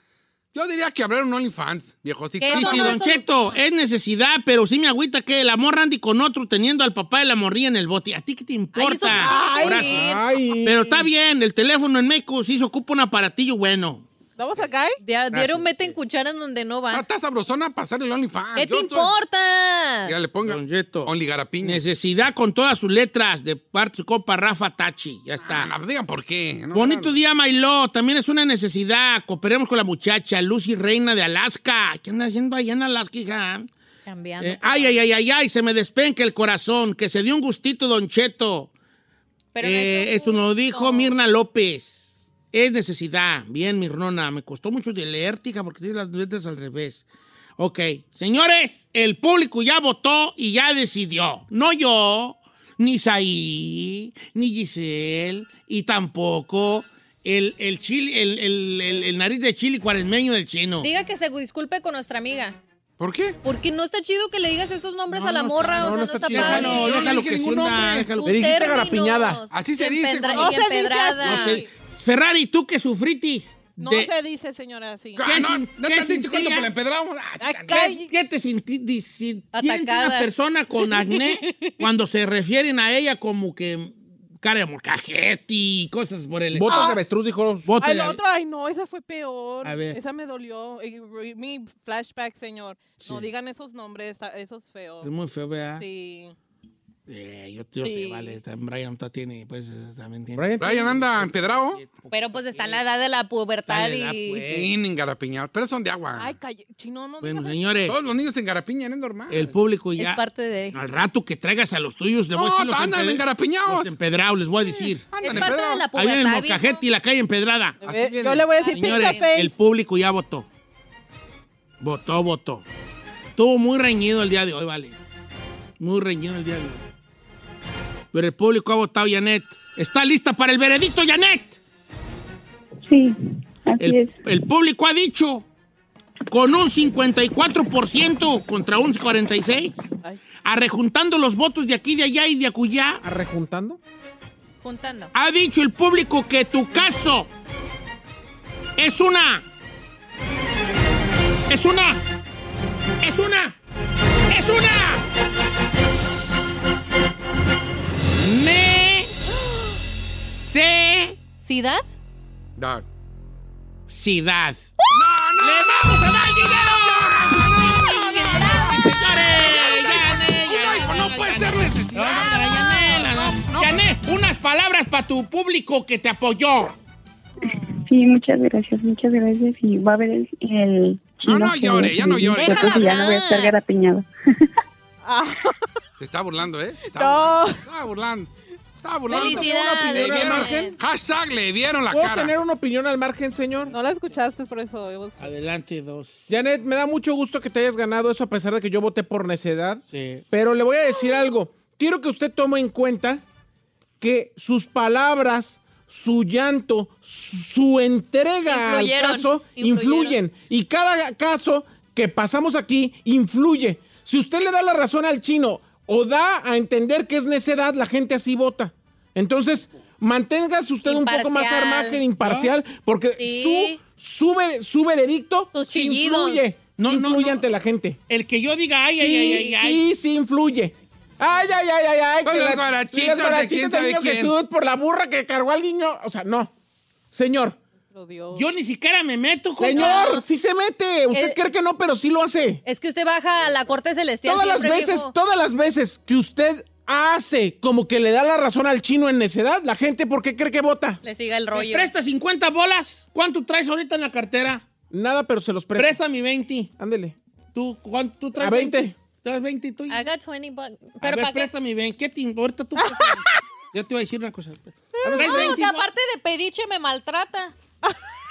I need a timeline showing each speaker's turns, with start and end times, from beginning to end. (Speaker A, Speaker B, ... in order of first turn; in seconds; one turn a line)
Speaker A: 0.5-3.0
Speaker B: 2.4-3.3
Speaker C: 2.5-10.1
Speaker B: 8.7-10.3
Speaker D: 9.2-10.0
Speaker E: 10.0-11.1
Speaker C: 10.6-14.1
Speaker D: 14.4-15.0
Speaker B: 15.0-17.0
Speaker C: 15.3-16.0
Speaker A: 16.9-19.1
Speaker B: 18.5-20.1
Speaker A: 20.1-21.8
Speaker C: 20.4-25.7
Speaker A: 25.4-27.1
Speaker C: 26.7-33.7
Speaker B: 34.0-35.0
Speaker C: 34.4-38.7
Speaker B: 39.5-41.1
Speaker C: 39.6-47.0
Speaker C: 47.6-60.9
Speaker B: 60.8-62.6
Speaker A: 63.0-63.4
Speaker B: 63.4-67.2
Speaker C: 65.1-68.6
Speaker E: 65.8-67.3
Speaker A: 66.7-68.1
Speaker B: 68.2-71.6
Speaker E: 68.2-69.4
Speaker A: 69.5-71.6
Speaker D: 70.3-71.7
Speaker C: 71.2-74.1
Speaker D: 73.8-75.4
Speaker A: 75.2-77.9
Speaker C: 75.2-76.7
Speaker D: 77.4-78.1
Speaker C: 77.7-87.0
Speaker B: 79.5-81.8
Speaker E: 86.5-87.7
Speaker B: 86.7-87.0
Speaker C: 87.7-88.2
Speaker D: 87.8-95.1
Speaker C: 89.6-90.0
Speaker C: 93.0-93.3
Speaker C: 95.0-95.8
Speaker D: 95.8-96.3
Speaker C: 97.1-102.8
Speaker B: 97.8-98.3
Speaker E: 100.3-100.8
Speaker A: 100.6-101.8
Speaker B: 102.1-104.5
Speaker C: 103.7-104.7
Speaker A: 104.5-106.3
Speaker D: 106.2-107.8
Speaker C: 107.2-108.0
Speaker A: 107.8-109.5
Speaker C: 109.3-117.8
Speaker B: 110.0-110.7
Speaker A: 112.3-113.9
Speaker A: 115.1-115.9
Speaker B: 115.2-116.8
Speaker A: 117.8-118.6
Speaker D: 117.8-119.6
Speaker B: 118.5-119.3
Speaker C: 118.7-120.5
Speaker C: 121.8-122.6
Speaker C: 123.3-125.0
Speaker C: 125.8-126.8
Speaker C: 128.1-131.6
Speaker F: 132.8-134.1
Speaker C: 133.8-135.4
Speaker C: 136.3-139.8
Speaker C: 140.4-143.0
Speaker E: 143.0-143.8
Speaker B: 144.6-145.1
Speaker C: 145.1-147.3
Speaker C: 148.8-149.4
Speaker C: 151.5-152.0
Speaker C: 153.0-153.6
Speaker C: 154.3-155.0
Speaker C: 158.2-159.1
Speaker C: 160.2-161.2
Speaker B: 161.4-161.8
Speaker A: 162.6-162.8
Speaker C: 163.9-164.7
Speaker A: 164.9-168.7
Speaker C: 165.4-176.7
Speaker B: 168.1-168.8
Speaker A: 169.3-173.8
Speaker D: 177.4-177.8
Speaker F: 177.8-184.1
Speaker A: 181.2-183.0
Speaker B: 182.3-183.6
Speaker D: 185.0-185.7
Speaker A: 186.0-188.3
Speaker D: 186.8-187.7
Speaker A: 188.8-192.4
Speaker B: 189.1-190.8
Speaker E: 189.1-190.7
Speaker E: 191.9-193.7
Speaker D: 193.7-195.3
Speaker C: 195.2-196.3
Speaker E: 196.3-203.2
Speaker C: 199.9-200.2
Speaker E: 204.0-228.0
Speaker B: 208.5-210.2
Speaker B: 220.8-222.0
Speaker C: 222.2-222.5
Speaker B: 223.2-223.8
Speaker B: 225.5-226.6
Speaker C: 226.8-227.5
Speaker C: 228.1-229.8
Speaker E: 229.0-236.5
Speaker A: 232.2-234.4
Speaker E: 237.1-237.6
Speaker D: 237.9-238.5
Speaker C: 238.3-240.2
Speaker E: 239.6-242.6
Speaker B: 239.7-240.2
Speaker B: 242.6-245.1
Speaker E: 244.2-251.0
Speaker B: 251.0-251.9
Speaker C: 251.5-254.6
Speaker E: 254.9-256.0
Speaker C: 255.7-256.7
Speaker E: 256.8-257.1
Speaker C: 257.5-260.1
Speaker E: 258.4-258.9
Speaker B: 259.9-261.5
Speaker C: 261.0-265.9
Speaker D: 262.8-263.4
Speaker E: 265.0-265.4
Speaker B: 265.1-267.5